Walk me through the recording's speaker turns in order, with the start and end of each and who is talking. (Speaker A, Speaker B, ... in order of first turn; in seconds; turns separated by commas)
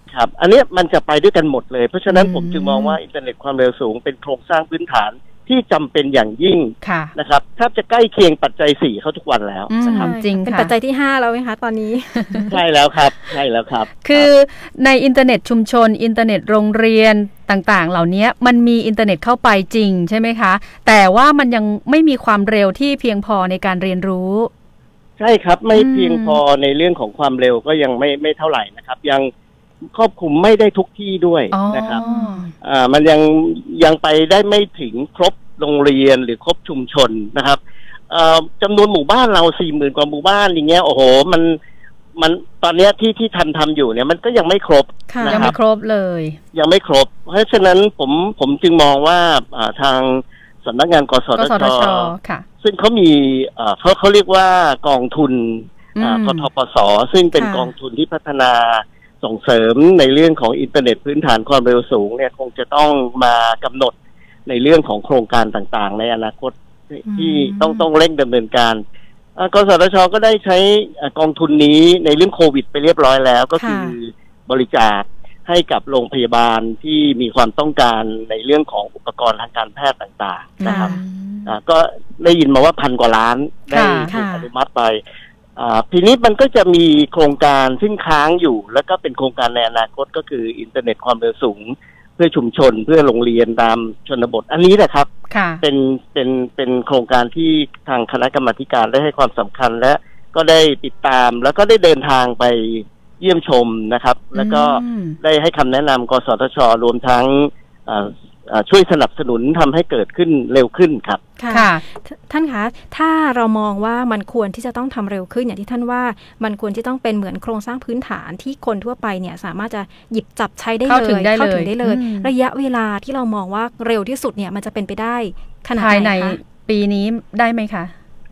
Speaker A: 0.1-10.1, Speaker B: 2.1-3.0, Speaker B: 6.8-7.1, Speaker B: 9.7-10.7, Speaker C: 9.8-12.6, Speaker A: 12.5-14.3, Speaker B: 14.0-24.5, Speaker A: 25.2-29.3, Speaker B: 25.7-26.4, Speaker A: 29.9-32.0, Speaker B: 31.5-32.5, Speaker C: 32.0-32.5, Speaker A: 32.6-41.6, Speaker A: 42.2-45.6, Speaker C: 45.1-45.5, Speaker B: 45.3-46.4, Speaker A: 46.5-63.9, Speaker B: 51.4-52.4, Speaker B: 56.0-56.5, Speaker C: 57.4-57.7, Speaker A: 64.5-68.8, Speaker C: 67.0-67.9, Speaker A: 69.3-80.9, Speaker C: 73.6-74.0, Speaker B: 80.6-81.5, Speaker C: 80.6-81.0, Speaker A: 81.5-85.0, Speaker B: 83.7-84.1, Speaker C: 84.1-84.5, Speaker A: 85.5-95.1, Speaker B: 95.3-95.6, Speaker A: 95.6-111.2, Speaker B: 104.3-105.2, Speaker C: 111.4-126.4, Speaker B: 111.5-111.8, Speaker B: 120.9-122.3, Speaker B: 125.8-127.9